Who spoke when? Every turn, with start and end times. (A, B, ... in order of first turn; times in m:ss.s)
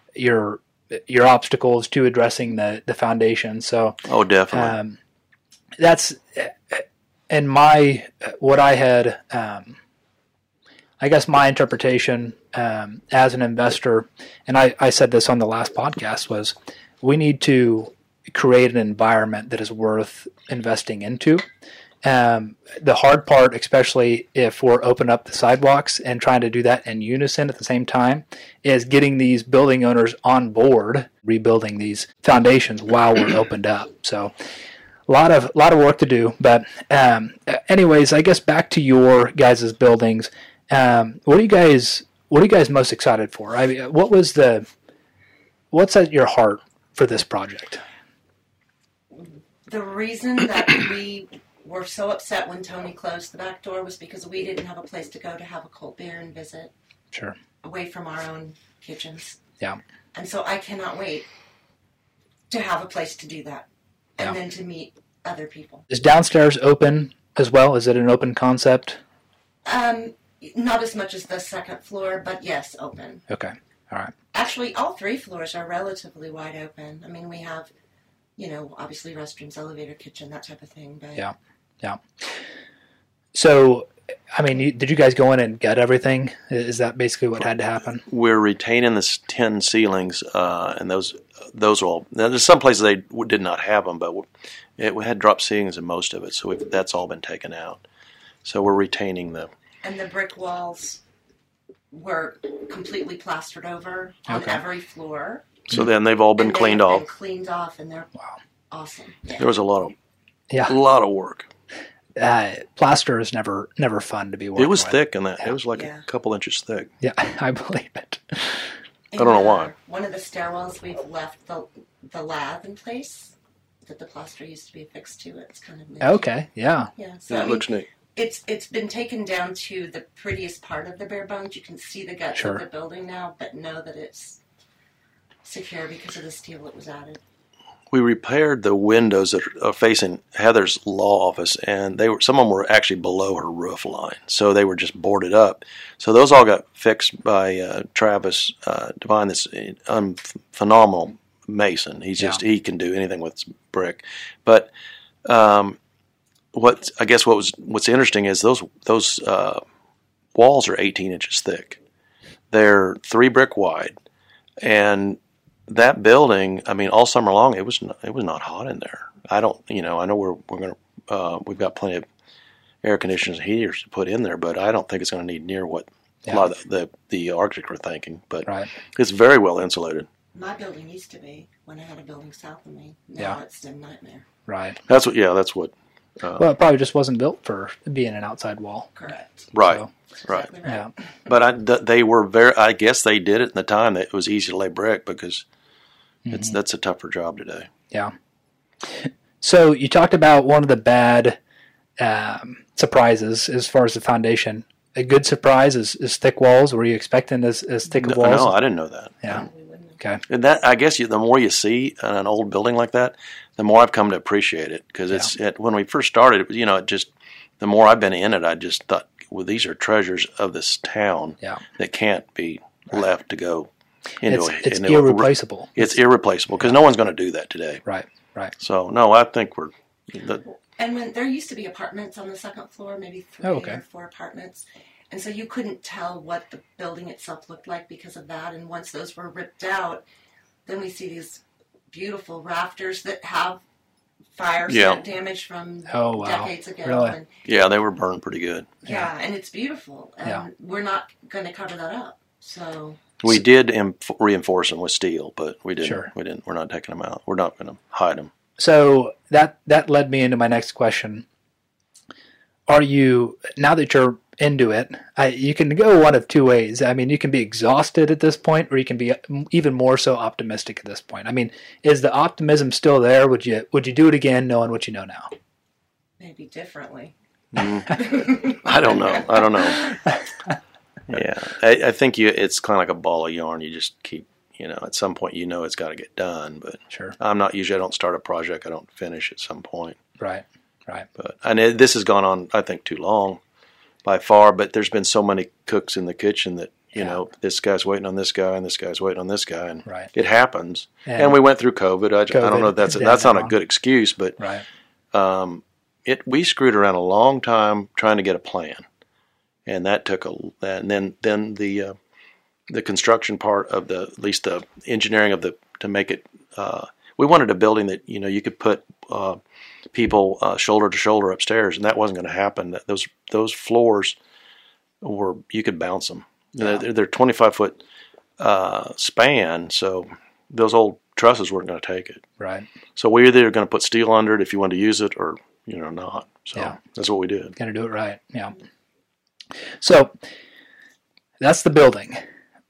0:00.2-0:04.0 A
0:04.0-0:04.7 B
0:04.5-0:05.0 A
0:05.8-0:09.8 A
0:11.0-0:21.4 A
0:22.0-0:34.3 A
0:35.1-0:44.7 A
0:45.7-0:47.8 A
0:49.1-0:56.7 C
0:57.6-0:59.4 C
1:00.1-1:01.3 C
1:02.5-1:05.8 C
1:05.9-1:09.0 A
1:09.6-1:13.2 C
1:13.3-1:14.1 A
1:14.3-1:17.7 C
1:18.4-1:21.3 C
1:21.2-1:22.0 A
1:23.3-1:28.0 A
1:28.0-1:37.8 B
1:38.4-1:39.5 B
1:39.8-1:41.0 C
1:41.9-1:45.7 C
1:44.3-1:44.6 A
1:45.7-1:47.1 B
1:46.4-1:48.2 C
1:48.7-1:49.5 C
1:49.4-1:49.9 B
1:50.5-1:50.7 A
1:50.7-1:51.5 B
1:52.2-1:55.5 A
1:54.6-1:56.9 B
1:55.7-1:56.0 C
1:57.0-1:58.7 A
1:59.1-2:06.3 C
1:59.2-1:59.7 B
2:06.0-2:06.9 A
2:07.0-2:14.4 C
2:07.3-2:07.9 B
2:12.3-2:12.6 A
2:15.4-2:17.2 C
2:17.9-2:34.7 B
2:35.2-2:35.8 B
2:36.5-2:39.6 B
2:40.3-2:41.8 B
2:42.5-2:44.0 B
2:44.6-2:52.0 B
2:52.8-3:00.1 B
3:00.3-3:04.2 C
3:04.5-3:04.8 A
3:04.9-3:06.4 B
3:06.4-3:08.9 A
3:08.9-3:09.5 C
3:09.5-3:10.5 B
3:09.6-3:09.9 A
3:10.2-3:11.3 C
3:10.6-3:10.9 A
3:11.3-3:15.4 B
3:16.2-3:16.6 A
3:16.3-3:17.7 B
3:18.8-3:21.4 A
3:22.0-3:28.6 A
3:28.0-3:29.4 B
3:29.3-3:30.0 C
3:30.3-3:43.7 B
3:44.2-3:47.8 B
3:44.2-3:46.0 A
3:47.8-3:48.5 A
3:48.6-3:50.4 B
3:50.8-4:00.0 C
3:53.4-3:53.8 A
4:00.6-4:03.6 C
4:04.3-4:07.3 C
4:04.7-4:05.0 B
4:05.9-4:07.2 A
4:07.4-4:08.7 B
4:08.8-4:13.1 C
4:13.2-4:18.3 B
4:15.8-4:16.1 A
4:18.6-4:21.2 A
4:22.7-4:35.3 A
4:36.2-4:37.1 C
4:37.5-4:39.9 B
4:37.9-4:39.5 C
4:39.6-4:40.5 A
4:41.1-4:50.0 B
4:46.9-4:47.2 A
4:50.2-4:51.1 A
4:51.2-4:53.4 B
4:54.0-5:04.4 B
5:01.0-5:01.4 A
5:02.3-5:03.6 A
5:04.4-5:04.6 A
5:05.1-5:08.8 B
5:09.6-5:12.0 B
5:12.7-5:19.4 B
5:19.9-5:24.2 B
5:25.0-5:27.8 B
5:28.4-5:32.2 B
5:32.4-5:32.7 A
5:33.0-5:37.6 B
5:37.6-5:38.6 A
5:39.8-5:40.1 A
5:41.4-5:42.2 A